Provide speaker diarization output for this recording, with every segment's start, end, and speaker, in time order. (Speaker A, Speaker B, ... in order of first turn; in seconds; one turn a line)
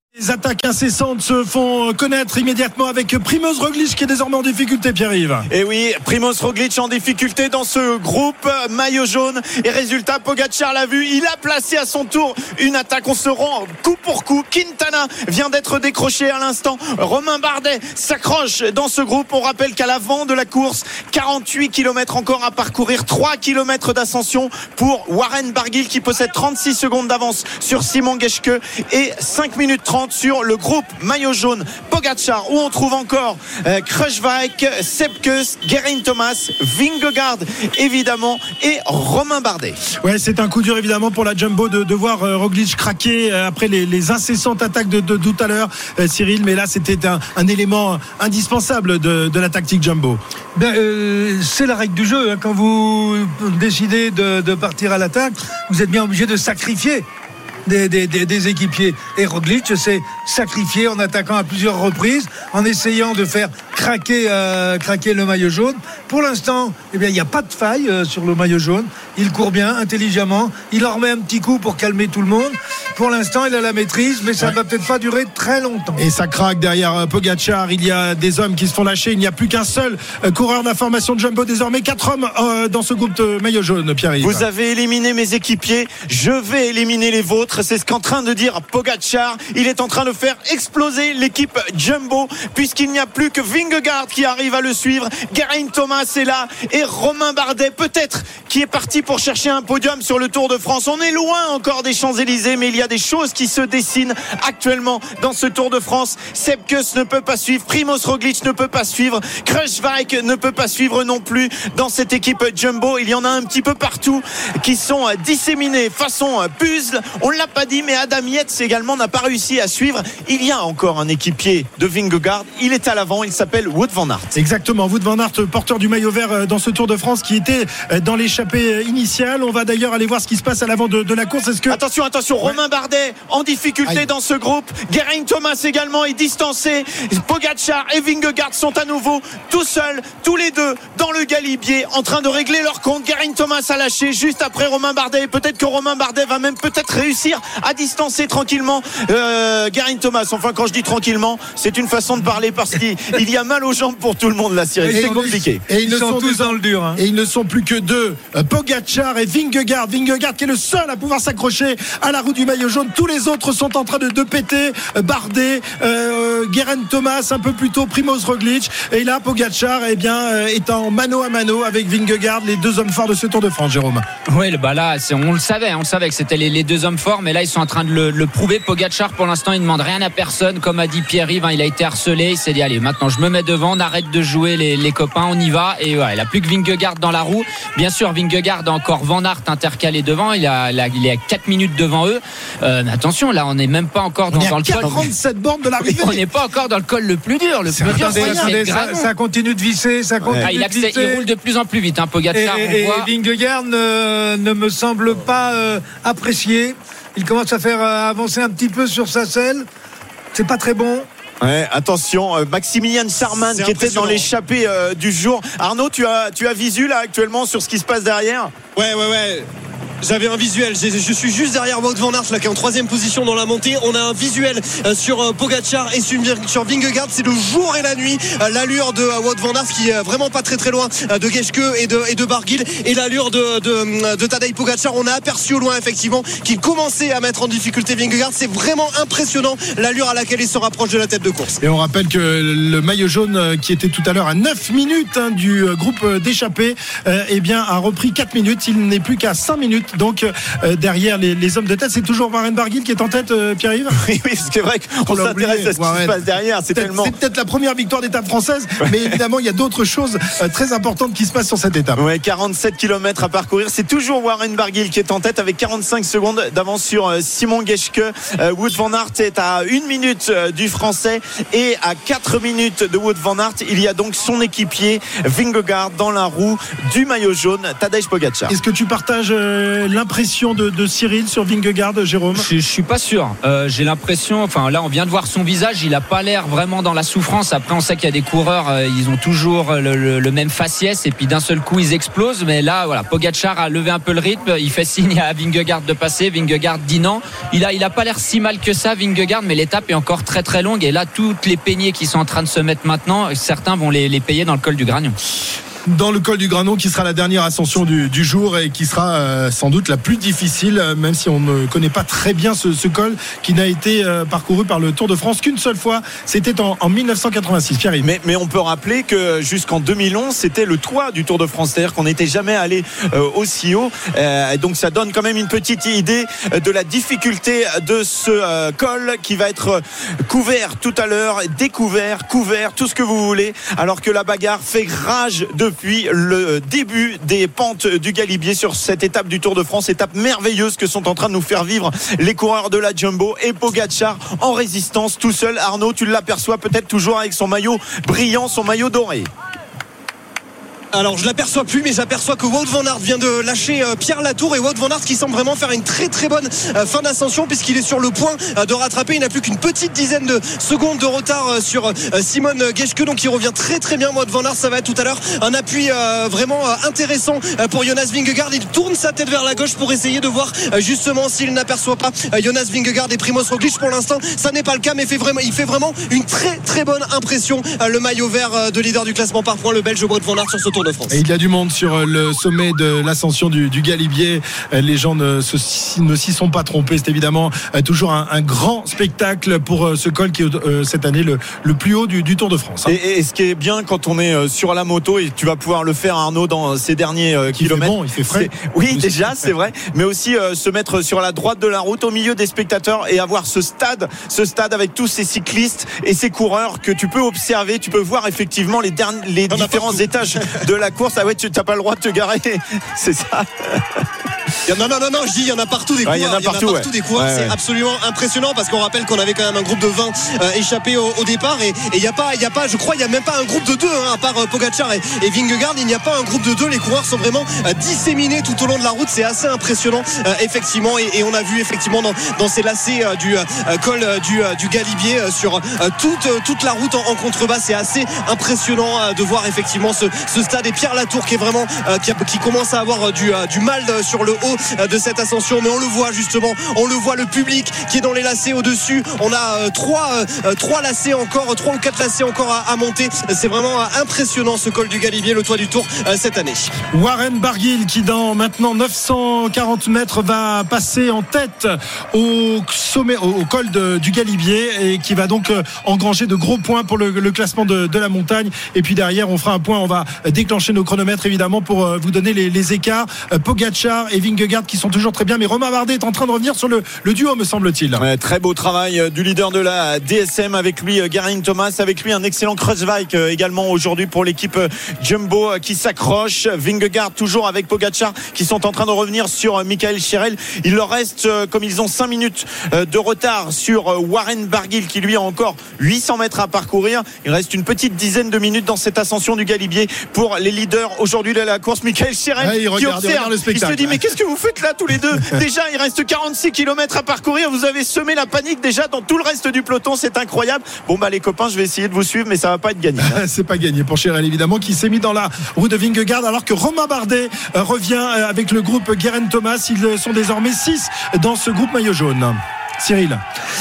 Speaker A: 0.1-5.5
Speaker B: 5.5-39.8
Speaker A: 40.0-50.2
Speaker C: 50.5-57.1
Speaker C: 57.6-76.0
Speaker A: 76.0-84.5
Speaker B: 84.2-124.3
Speaker A: 124.3-131.8
Speaker B: 131.7-155.6
Speaker C: 154.8-157.0
Speaker A: 154.9-174.0
Speaker D: 174.3-195.0
Speaker A: 194.3-196.2
Speaker B: 194.8-195.1
Speaker D: 195.8-199.1
Speaker A: 197.7-198.5
Speaker C: 197.8-201.3
Speaker B: 200.2-200.5
Speaker D: 200.4-203.1
Speaker C: 202.3-209.7
Speaker C: 210.3-211.1
Speaker B: 211.4-218.5
Speaker E: 213.4-214.3
Speaker E: 218.8-219.5
Speaker E: 220.0-241.6
Speaker A: 241.6-254.0
Speaker B: 253.9-257.1
Speaker A: 255.1-256.2
Speaker A: 256.7-262.0
Speaker B: 258.8-259.1
Speaker B: 261.9-278.5
Speaker A: 278.5-282.4
Speaker D: 282.3-305.1
Speaker A: 305.9-318.1
Speaker B: 318.0-349.3
Speaker E: 350.9-381.2
Speaker A: 381.1-392.9
Speaker B: 392.9-414.0
Speaker A: 397.5-399.4
Speaker E: 409.5-410.6
Speaker E: 414.6-456.7
Speaker B: 416.0-417.5
Speaker A: 456.9-478.0
Speaker B: 478.0-513.2
Speaker A: 502.4-504.0
Speaker A: 505.1-505.4
Speaker A: 513.0-523.2